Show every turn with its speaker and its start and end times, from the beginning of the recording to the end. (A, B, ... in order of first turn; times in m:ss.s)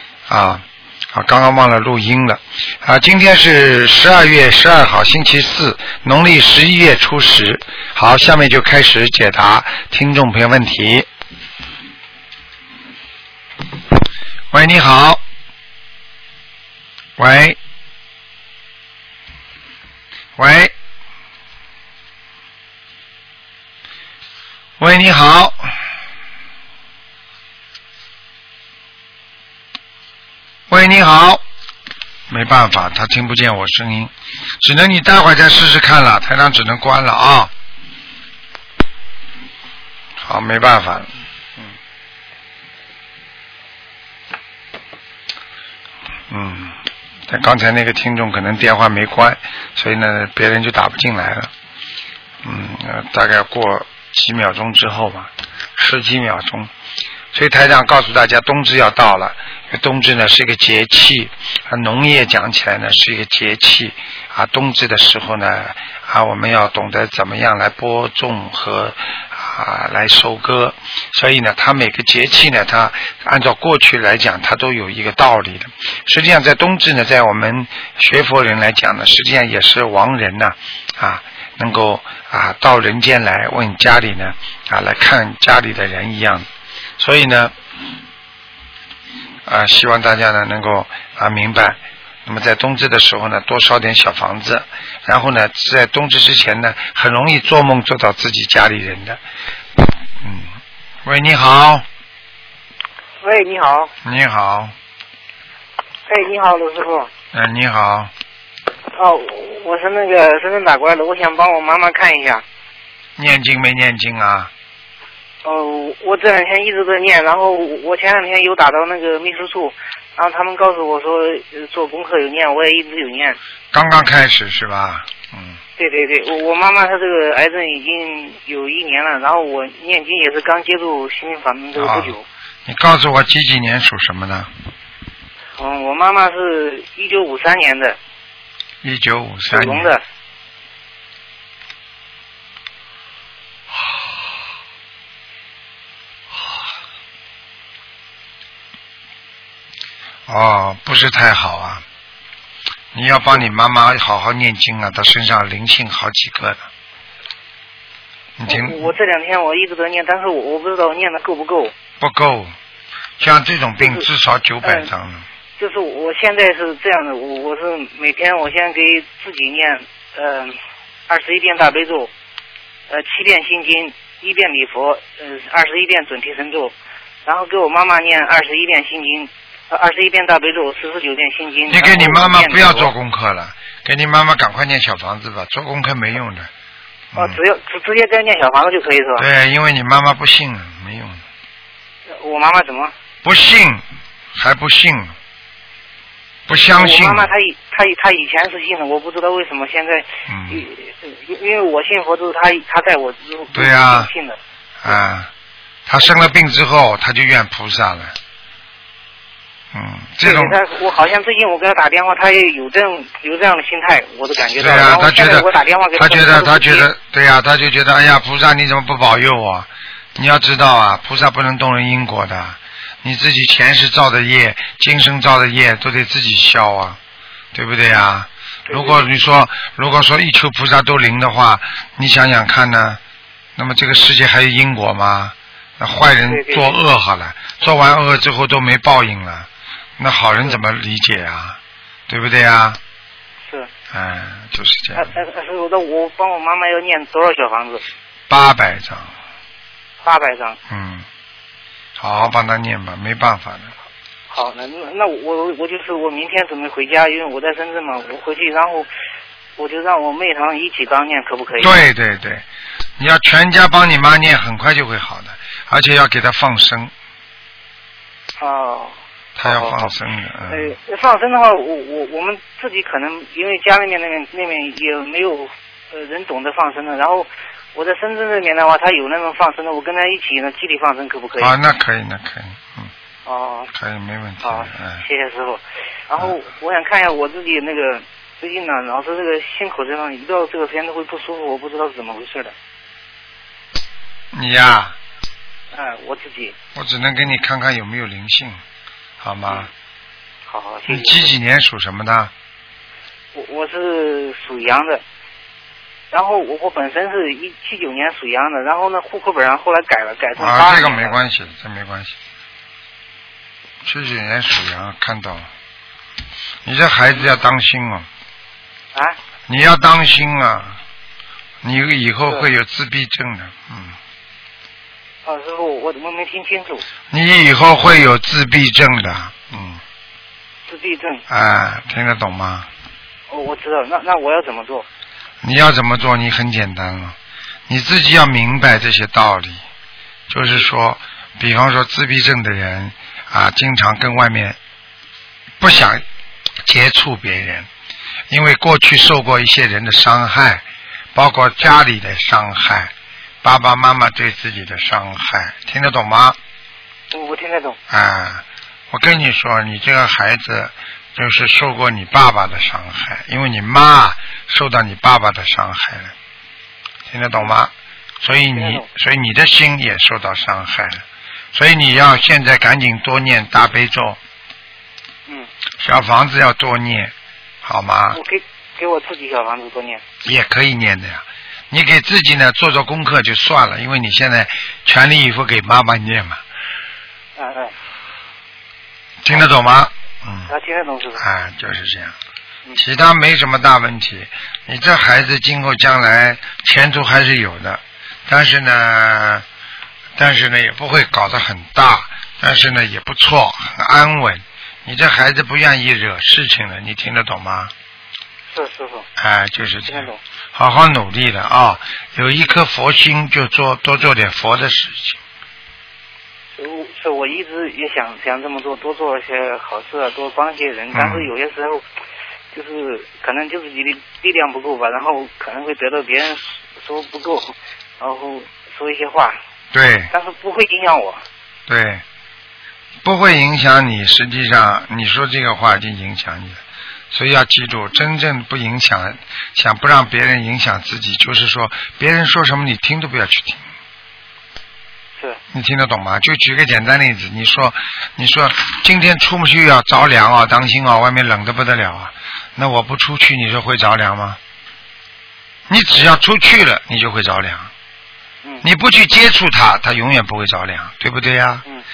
0:00.3-0:00.6 A
0:01.1-0:11.1 A
0:14.5-0:15.2 A
0:17.2-0:17.6 A
0:20.4-0:20.7 A
0:24.8-0:25.7 A
0:30.7-0:31.4 A
0:32.3-0:37.5 A
0:40.2-0:41.7 A
0:46.3-0:46.8 A
0:47.3-0:51.5 A
0:52.4-0:56.7 A
0:57.3-1:26.5 A
1:27.0-1:27.5 A
1:29.5-1:39.2 A
1:40.2-1:40.5 A
1:41.0-1:41.8 A
1:43.2-1:43.9 B
1:44.0-1:44.7 A
1:46.1-1:47.1 B
1:47.3-1:48.1 A
1:48.9-1:52.4 B
1:53.2-1:54.5 A
1:55.4-2:03.4 B
2:03.7-2:05.6 A
2:05.8-2:12.2 B
2:11.8-2:14.5 A
2:15.6-2:18.0 B
2:18.8-2:19.9 A
2:19.5-2:20.0 B
2:30.3-2:31.8 A
2:32.9-2:36.6 A
2:38.4-2:38.9 A
2:38.5-2:41.7 B
2:42.0-2:42.5 A
2:43.2-2:45.2 A
2:43.8-2:44.0 B
2:44.6-2:44.9 B
2:45.6-2:50.6 B
2:51.1-2:52.1 B
2:52.9-2:56.7 B
2:57.2-3:02.9 B
3:01.7-3:06.5 A
3:07.1-3:07.4 A
3:07.2-3:09.3 B
3:09.2-3:11.2 A
3:12.1-3:12.9 B
3:13.2-3:13.8 A
3:14.4-3:15.1 A
3:16.5-3:17.3 A
3:16.6-3:25.0 B
3:20.3-3:20.6 A
3:23.5-3:24.1 A
3:24.8-3:25.3 A
3:25.9-3:28.2 A
3:29.7-3:30.6 A
3:30.2-3:36.9 B
3:34.6-3:47.0 A
3:47.5-3:53.0 A
3:48.7-3:49.1 B
3:53.6-3:59.5 A
3:56.3-3:56.8 B
4:00.0-4:01.6 A
4:02.1-4:02.8 A
4:03.9-4:05.1 A
4:05.0-4:07.8 B
4:08.3-4:09.1 A
4:10.0-4:10.6 B
4:10.7-4:11.1 A
4:12.0-4:13.7 A
4:14.3-4:18.9 B
4:19.6-4:21.8 B
4:21.6-4:22.4 A
4:23.0-4:26.9 A
4:28.4-4:29.9 B
4:29.4-4:30.8 A
4:30.5-4:41.6 B
4:41.4-4:42.9 A
4:43.3-4:43.7 B
4:43.7-4:45.0 A
4:44.4-4:52.5 B
4:54.3-4:55.0 A
4:55.7-4:56.6 B
4:56.8-4:58.6 A
4:59.2-4:59.7 A
5:00.5-5:01.4 B
5:00.9-5:02.3 A
5:03.3-5:05.0 B
5:06.1-5:11.2 B
5:10.4-5:12.1 A
5:13.8-5:15.5 A
5:16.6-5:18.1 A
5:17.1-5:17.4 B
5:19.5-5:20.8 A
5:21.6-5:24.0 A
5:25.2-5:26.9 B
5:27.1-5:29.8 A
5:30.7-5:31.2 B
5:31.3-5:32.7 A
5:33.3-5:34.9 B
5:35.4-5:37.2 A
5:37.7-5:39.6 A
5:40.3-5:44.6 A
5:45.6-5:46.0 A
5:46.6-5:47.7 A
5:48.3-5:50.6 A
5:51.1-5:52.9 A
5:53.4-5:56.4 A
5:57.1-5:57.8 B
5:57.9-6:06.1 A
6:07.1-6:11.0 A
6:08.5-6:08.8 B
6:11.5-6:14.2 A
6:15.8-6:17.1 A
6:17.6-6:18.2 A
6:18.1-6:20.0 B
6:20.2-6:26.4 A
6:27.4-6:27.7 B
6:29.2-6:30.5 A
6:30.5-6:31.2 B
6:31.2-6:32.2 A
6:32.8-6:39.4 A
6:40.2-6:47.7 A
6:48.5-6:49.1 B
6:49.2-6:55.2 A
6:49.9-6:50.2 B
6:56.6-7:01.8 B
7:00.9-7:01.3 A
7:02.5-7:09.4 B
7:09.7-7:10.1 A
7:10.1-7:11.2 B
7:11.7-7:12.0 A
7:13.0-7:16.6 A
7:17.1-7:23.6 A
7:25.5-7:34.4 A
7:35.7-7:37.7 A
7:38.6-7:41.6 A